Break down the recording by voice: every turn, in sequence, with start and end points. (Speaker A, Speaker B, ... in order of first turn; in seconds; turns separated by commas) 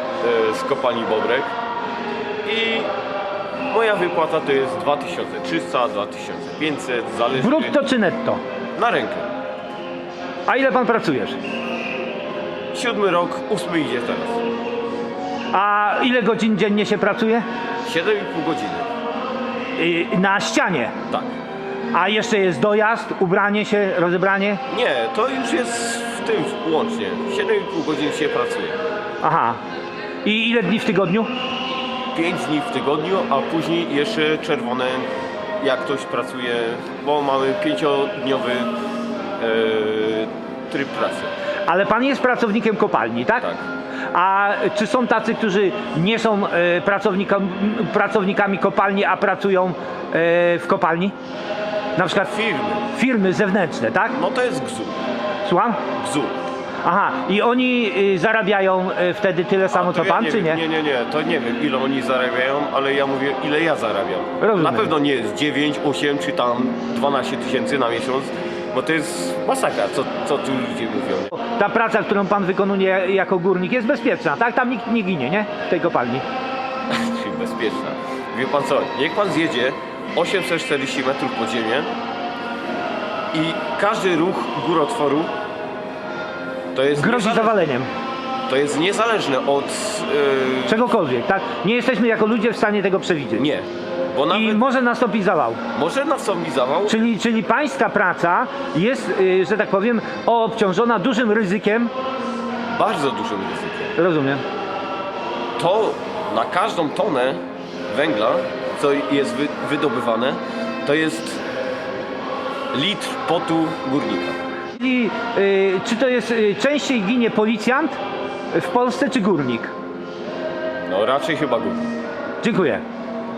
Speaker A: 0.2-1.5, Speaker A: 2.4-2.9, Speaker A: 3.7-7.8, Speaker B: 7.4-8.4, Speaker A: 8.8-9.3, Speaker B: 10.5-11.4, Speaker A: 12.7-14.4, Speaker B: 15.5-17.4, Speaker A: 17.8-18.9, Speaker B: 19.8-20.9, Speaker B: 21.9-24.6, Speaker A: 24.7-28.8, Speaker B: 29.2-29.6, Speaker B: 30.2-31.3, Speaker A: 32.1-35.1, Speaker A: 35.6-38.7, Speaker A: 39.4-41.3, Speaker B: 41.7-43.5, Speaker B: 44.1-51.1, Speaker B: 52.0-52.3, Speaker A: 52.0-52.9, Speaker B: 52.9-54.1, Speaker A: 54.1-55.0, Speaker B: 55.5-55.8, Speaker A: 56.0-56.4, Speaker B: 56.8-60.6, Speaker A: 59.7-71.3, Speaker B: 64.4-64.9, Speaker B: 71.3-76.2, Speaker A: 76.9-81.9, Speaker A: 83.3-85.3, Speaker A: 86.7-87.6, Speaker B: 87.0-87.9, Speaker A: 88.5-90.9, Speaker B: 90.7-93.5, Speaker A: 93.4-94.7, Speaker B: 94.3-95.6, Speaker A: 95.7-97.0, Speaker B: 96.9-101.9, Speaker A: 102.7-103.9, Speaker B: 104.0-104.4, Speaker A: 105.6-111.4, Speaker A: 112.7-114.4, Speaker B: 114.8-118.0, Speaker B: 118.5-119.7, Speaker A: 120.9-121.9, Speaker B: 122.4-122.8